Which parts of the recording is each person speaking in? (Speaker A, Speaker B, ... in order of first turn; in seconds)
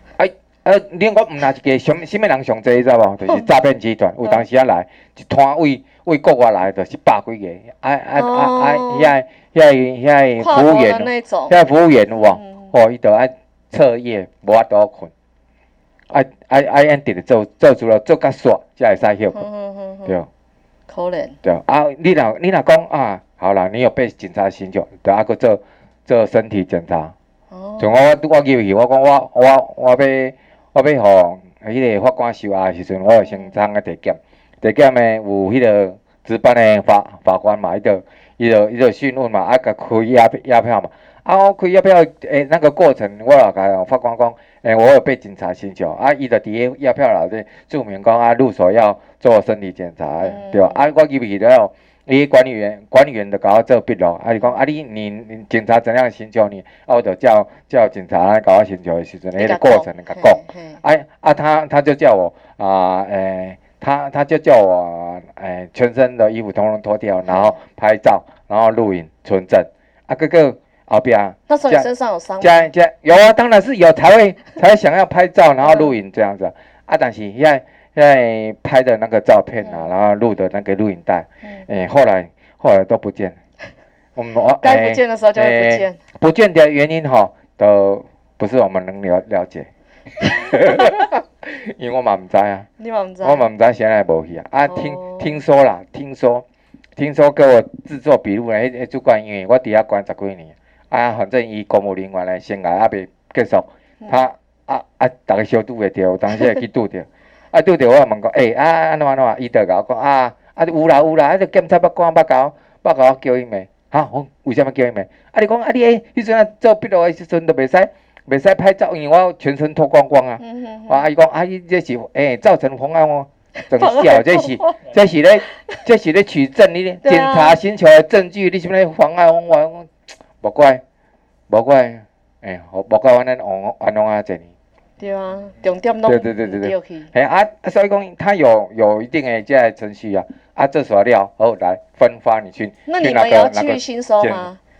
Speaker A: 0.2-15.1, 16.1-19.4, 21.4-27.1, 27.8-71.9, 72.4-83.4, 84.2-89.7, 90.2-92.7, 93.2-96.4, 97.0-130.8, 131.5-134.5, 136.1-144.5
Speaker B: 8.2-9.1, 10.4-11.5, 12.3-12.7, 19.3-20.2, 20.9-21.4, 27.5-28.0, 33.2-33.6, 50.2-50.8, 59.4-60.8, 67.2-67.6, 71.5-72.7, 75.6-75.9, 79.6-79.9, 84.6-86.0, 92.8-93.5, 94.7-95.3, 120.4-121.1, 123.7-124.8, 127.0-127.6, 135.0-137.1, 142.9-144.6